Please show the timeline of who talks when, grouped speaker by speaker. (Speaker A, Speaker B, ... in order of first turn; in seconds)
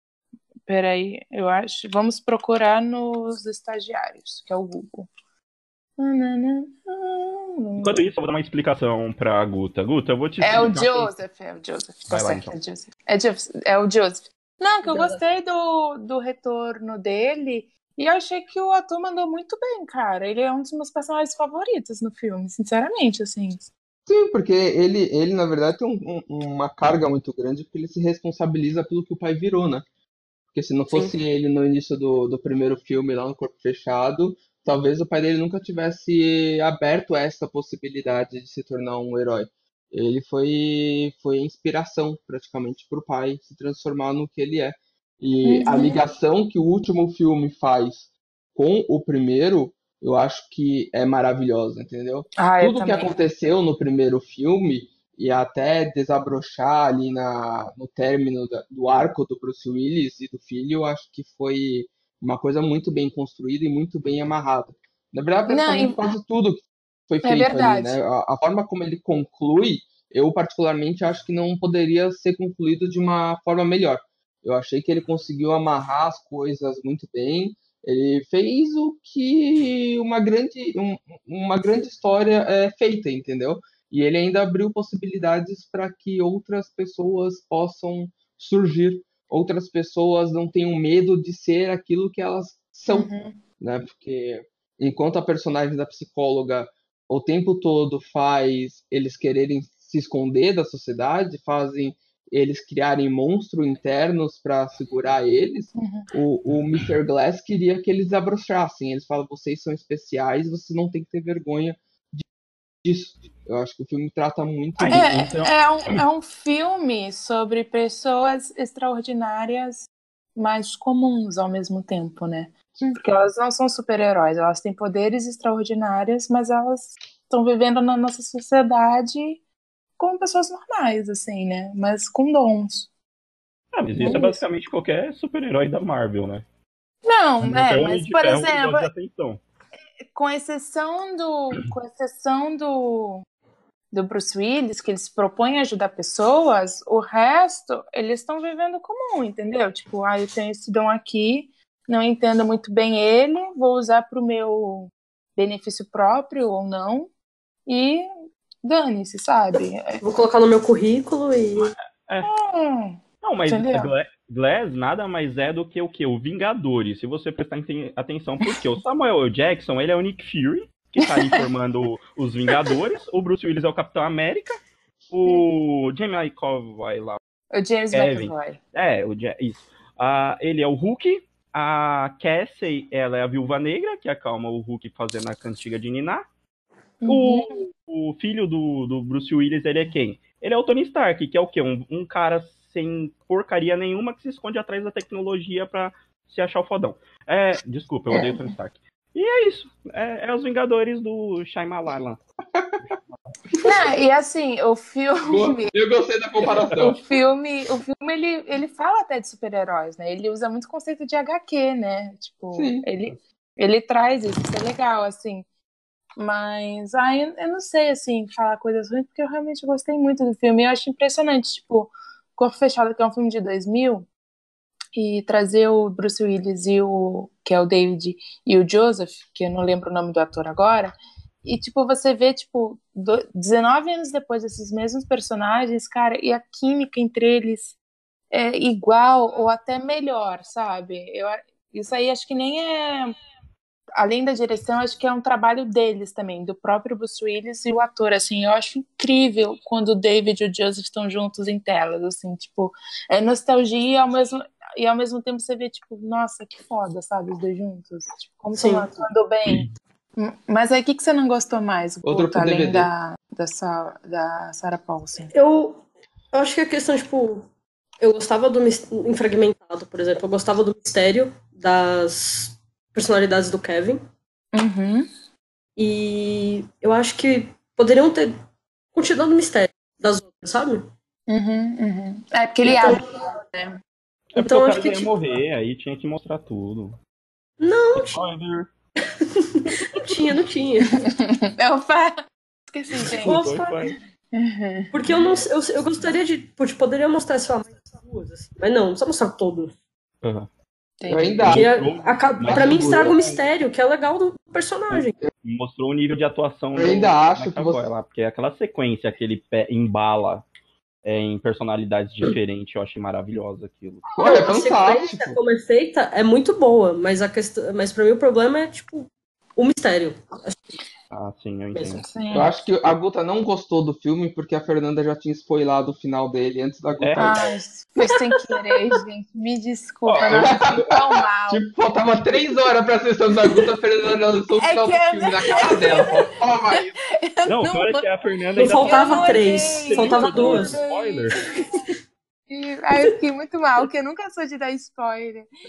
Speaker A: 0.7-5.1, 6.0-8.0, 10.4-23.7, 45.4-46.0, 52.4-53.2, 65.5-66.0, 67.2-68.0, 92.9-93.4, 105.7-106.1, 114.9-129.4, 130.0-132.9, 134.0-134.4, 137.0-138.9, 140.1-143.2, 143.9-157.1, 157.7-158.1, 158.6-160.0, 162.2-163.9, 177.5-178.6, 187.0-187.6, 198.1-198.4, 203.6-205.7, 206.8-215.4, 216.2-224.1, 224.9-237.8, 238.3-243.1, 243.9-265.3, 274.5-275.1, 281.3-283.8, 291.1-293.4, 294.3-294.9, 301.0-301.5, 321.9-322.5, 327.2-331.7, 334.6-338.1, 338.6-341.4, 342.5-345.5
Speaker B: 7.8-11.1, 12.1-12.5, 114.8-116.0, 133.7-136.4, 137.4-139.4, 161.6-162.3, 163.2-174.6, 175.1-177.2, 177.9-186.2, 187.1-202.2, 284.3-287.0, 288.0-288.7, 293.2-294.0, 300.2-300.5, 301.4-303.3, 304.9-310.4, 311.0-314.7, 321.1-322.7, 327.0-327.3, 330.1-330.6, 337.4-341.5
Speaker C: 14.8-15.2, 160.0-161.7, 258.5-258.9, 265.3-267.5, 268.0-274.0, 275.8-278.3, 278.9-280.9, 282.6-283.1, 284.4-285.1, 287.6-288.2, 289.0-291.0, 293.2-293.9, 294.9-299.7, 301.5-305.1, 314.2-320.6, 321.7-322.0, 338.6-340.8
Speaker D: 24.1-29.9, 30.5-112.2, 112.8-115.2, 202.5-202.8, 205.2-207.0, 212.5-212.8, 262.0-262.9, 301.1-301.7, 302.5-303.3, 306.7-307.9, 314.1-315.4, 322.3-327.4, 330.2-330.9, 331.5-336.9